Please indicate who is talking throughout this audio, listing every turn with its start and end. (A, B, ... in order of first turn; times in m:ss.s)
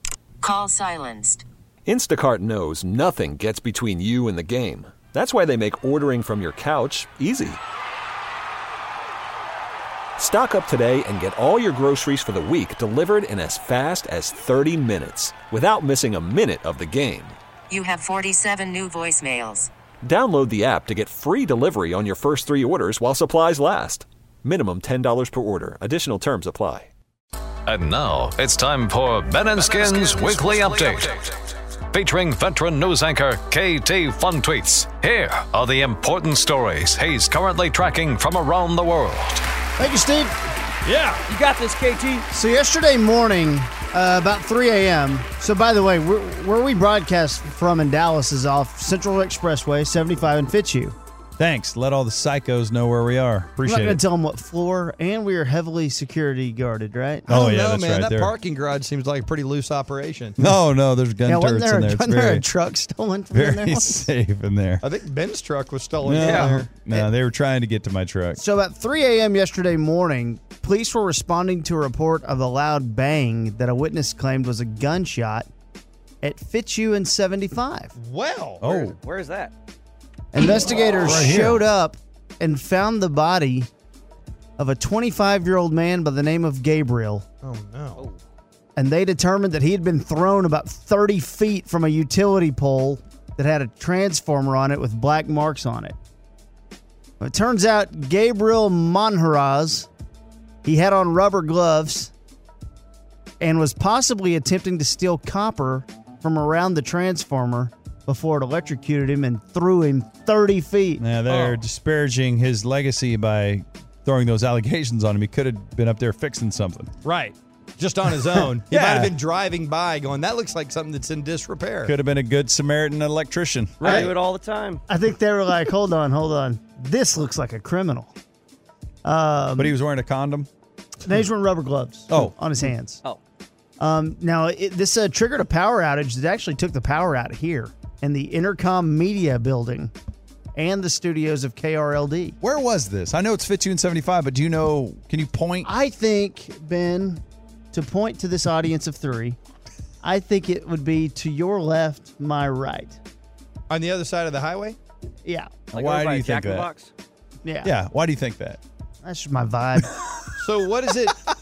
0:00.4-0:01.4 A
0:01.8-0:07.6 B
0:10.2-0:17.4 B
0:17.7-0:19.7 A
0:20.0-0:26.9 B
0:27.7-0:39.4 C
0:39.8-0:40.4 D
0:41.0-0:42.3 E
0:42.3-0:51.0 D
0:51.4-0:54.0 F
0:53.6-0:57.3 D
0:57.3-1:00.4 G
0:57.3-0:58.3 F
1:00.4-1:02.5 F
1:01.2-1:04.1 D
1:03.3-1:04.8 F
1:04.8-1:06.7 G
1:06.0-1:08.4 F
1:06.2-1:07.1 D
1:08.3-1:15.5 D
1:16.2-1:17.9 D
1:18.0-1:18.7 G
1:18.6-1:19.0 F
1:18.6-1:19.5 E
1:20.3-1:23.7 D
1:21.1-1:21.6 G
1:24.6-1:27.2 D
1:27.4-1:28.1 G
1:28.8-1:36.0 D
1:37.2-1:39.9 D
1:40.6-1:42.1 D
1:43.4-1:51.0 D
1:51.0-1:56.9 F
1:51.3-1:51.6 G
1:57.0-2:01.9 G
1:58.6-1:59.1 F
2:01.8-2:04.1 F
2:03.8-2:04.1 G
2:03.8-2:04.8 E
2:03.8-2:04.1 D
2:04.9-2:08.1 D
2:09.0-2:09.8 D
2:09.6-2:10.5 F
2:11.0-2:13.0 D
2:12.1-2:12.3 F
2:13.8-2:19.9 D
2:20.6-2:22.4 D
2:22.4-2:25.7 F
2:25.6-2:29.4 D
2:30.0-2:33.0 D
2:33.7-2:34.8 G
2:35.2-2:35.5 D
2:35.7-2:36.7 F
2:35.7-2:36.9 E
2:37.4-2:37.7 D
2:37.6-2:38.6 F
2:39.0-2:40.0 D
2:40.4-2:41.2 G